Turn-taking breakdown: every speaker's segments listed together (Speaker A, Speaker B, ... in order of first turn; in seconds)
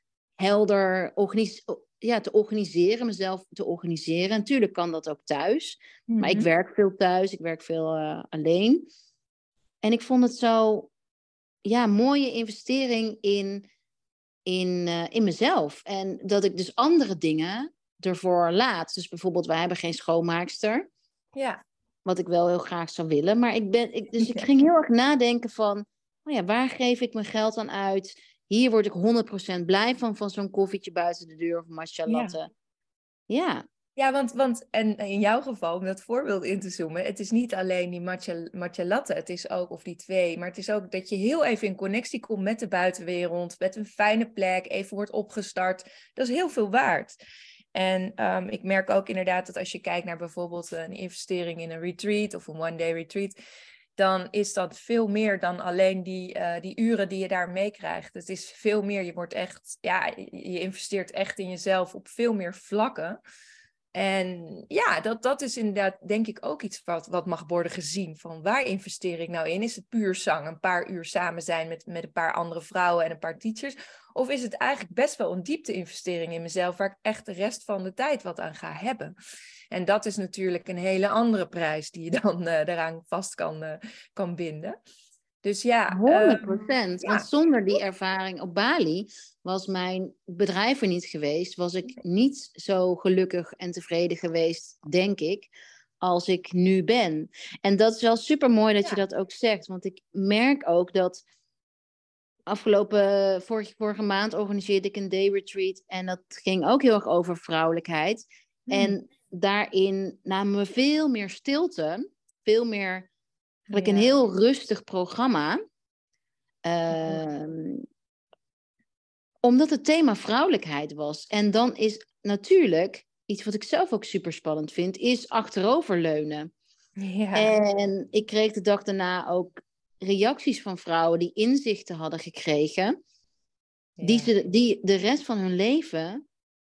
Speaker A: 0.4-8.9, 9.8-10.9, 11.7-13.7, 14.5-20.9, 22.1-32.5, 33.3-33.6, 85.9-95.5, 96.0-101.2, 102.5-113.1, 113.7-115.6, 116.7-117.8, 119.4-126.5, 127.3-133.0, 134.0-136.2
Speaker B: 6.1-6.5, 21.4-21.6, 32.1-32.4, 34.0-47.2, 47.7-53.4, 54.0-63.2, 63.9-79.1, 79.7-84.8, 85.4-87.3, 108.7-109.0, 113.7-114.2, 116.9-117.2, 127.0-127.5, 134.0-134.3